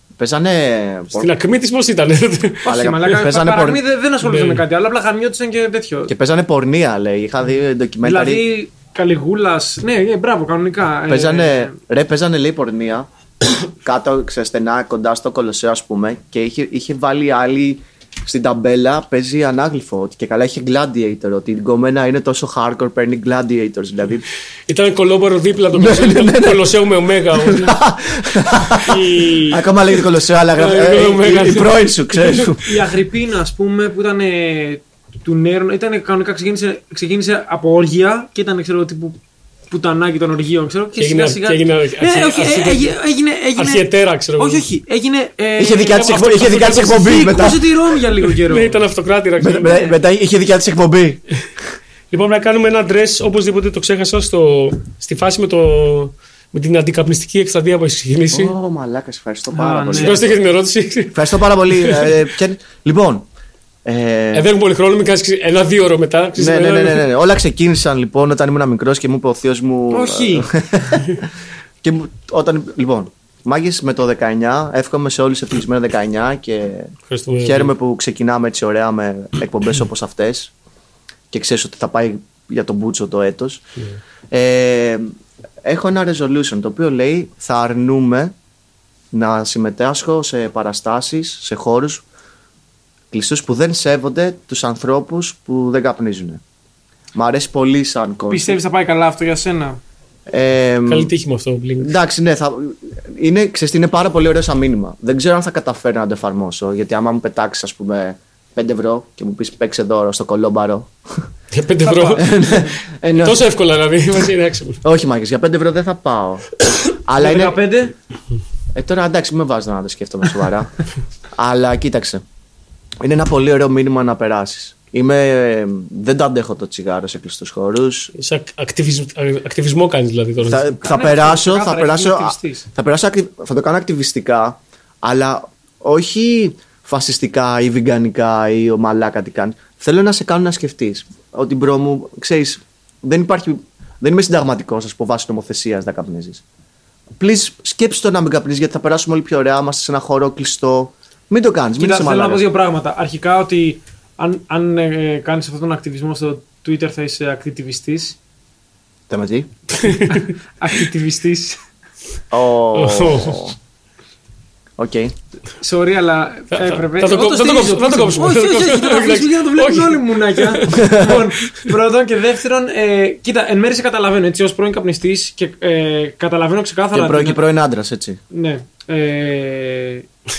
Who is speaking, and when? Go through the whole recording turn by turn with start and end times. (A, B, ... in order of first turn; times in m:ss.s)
0:00.2-0:01.3 A
0:01.1-0:02.8 B
0:02.6-0:06.1 C
0:02.6-0:03.8 A
0:04.2-0:04.6 B
0:06.1-0:08.4 A
0:08.0-0:11.8 C
0:11.1-0:24.2 A
0:24.7-0:27.8 B
0:25.7-0:26.8 A
0:27.3-0:32.8 A
0:28.8-0:29.6 C
0:30.6-0:32.5 B
0:32.6-0:39.2 C
0:39.7-0:48.8 C
0:41.0-0:43.0 B
0:43.6-0:44.7 B
0:45.6-0:47.7 A
0:46.0-0:47.1 B
0:48.4-0:49.9 B
0:49.4-0:51.2 A
0:52.1-0:58.5 B
0:58.3-1:00.4 A
0:59.5-1:00.3 C
0:59.9-1:02.2 B
1:01.1-1:03.3 A
1:03.8-1:04.5 A
1:04.3-1:07.1 B
1:06.4-1:11.3 A
1:09.9-1:10.5 C
1:11.8-1:20.5 A
1:17.1-1:17.7 B
1:21.3-1:23.6 A
1:24.3-1:28.3 A
1:29.1-1:32.0 A
1:33.1-1:36.4 A
1:37.2-1:38.6 A
1:38.3-1:39.8 C
1:40.3-1:41.1 A
1:40.9-1:41.9 B
1:41.8-1:51.2 A
1:51.5-1:54.8 B
1:51.8-1:52.2 C
1:52.2-1:53.4 A
1:54.8-1:56.5 A
1:57.0-1:57.6 A
1:57.2-1:57.9 C
1:58.7-2:00.7 A
2:01.3-2:02.2 A
2:03.0-2:08.1 A
2:08.2-2:10.7 B
2:10.4-2:26.4 A
2:10.8-2:12.7 C
2:27.2-2:32.4 A
2:31.8-2:38.2 C
2:39.1-2:39.5 A
2:39.8-2:41.6 C
2:39.8-2:40.3 B
2:42.3-2:43.6 A
2:42.7-2:43.5 B
2:44.8-2:45.1 A
2:45.6-2:57.4 C
2:46.5-2:50.9 B
2:50.7-2:51.2 A
2:56.9-2:58.2 A
2:58.3-3:00.1 C